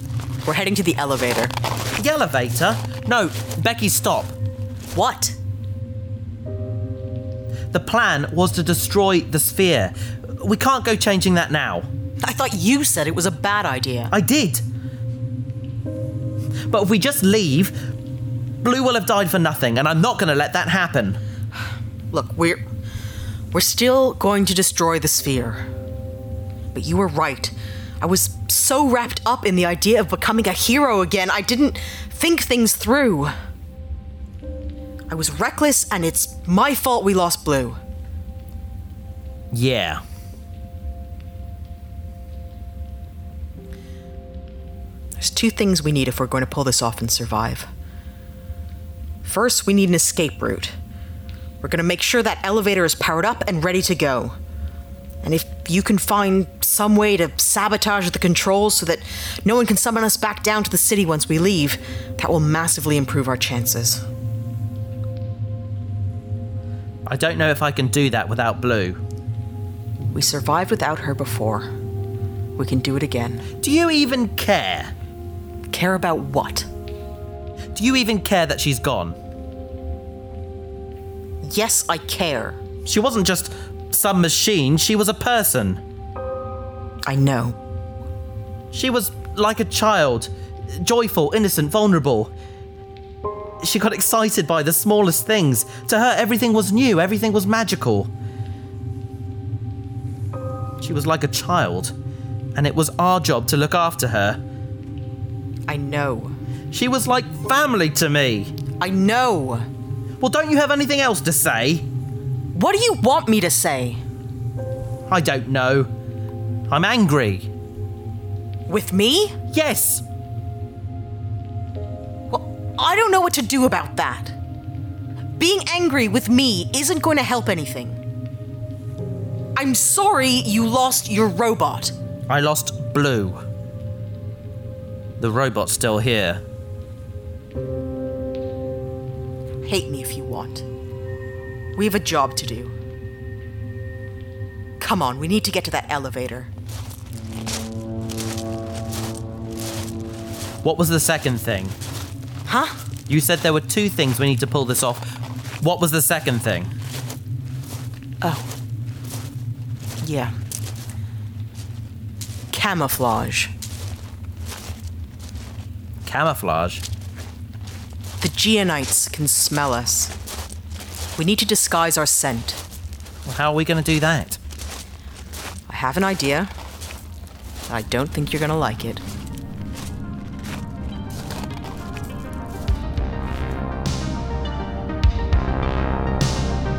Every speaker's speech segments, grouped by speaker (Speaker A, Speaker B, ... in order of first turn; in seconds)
Speaker A: 0.5-1.6, 4.9-5.4, 12.2-14.1, 22.1-22.6, 23.5-25.7, 26.7-33.3, 35.1-37.8, 45.2-47.7, 49.2-50.8, 51.6-54.4, 55.2-64.0, 70.1-71.7, 72.6-73.5, 75.7-76.7, 81.4-82.6, 87.1-87.6, 105.7-106.3, 108.8-109.7, 112.5-114.0, 118.7-119.4, 122.3-124.4, 125.4-128.0, 129.6-131.9, 139.6-140.7, 141.8-142.7, 144.8-146.5, 152.5-152.8, 158.2-158.5, 160.0-160.3, 162.5-163.5, 168.2-170.1, 171.2-172.6, 175.7-176.5, 177.7-179.0
Speaker B: 1.9-4.4, 7.7-11.9, 14.1-14.7, 16.7-17.8, 18.6-21.2, 39.5-40.0, 67.1-69.0, 73.6-74.9, 77.8-79.2, 82.8-85.8, 88.7-92.3, 93.6-98.1, 100.8-102.0, 102.5-104.4, 106.7-108.5, 110.2-111.9, 115.1-115.9, 116.7-117.5, 119.5-120.0, 132.3-133.4, 135.2-136.4, 150.6-151.8, 153.1-156.7, 166.1-166.8, 173.2-174.4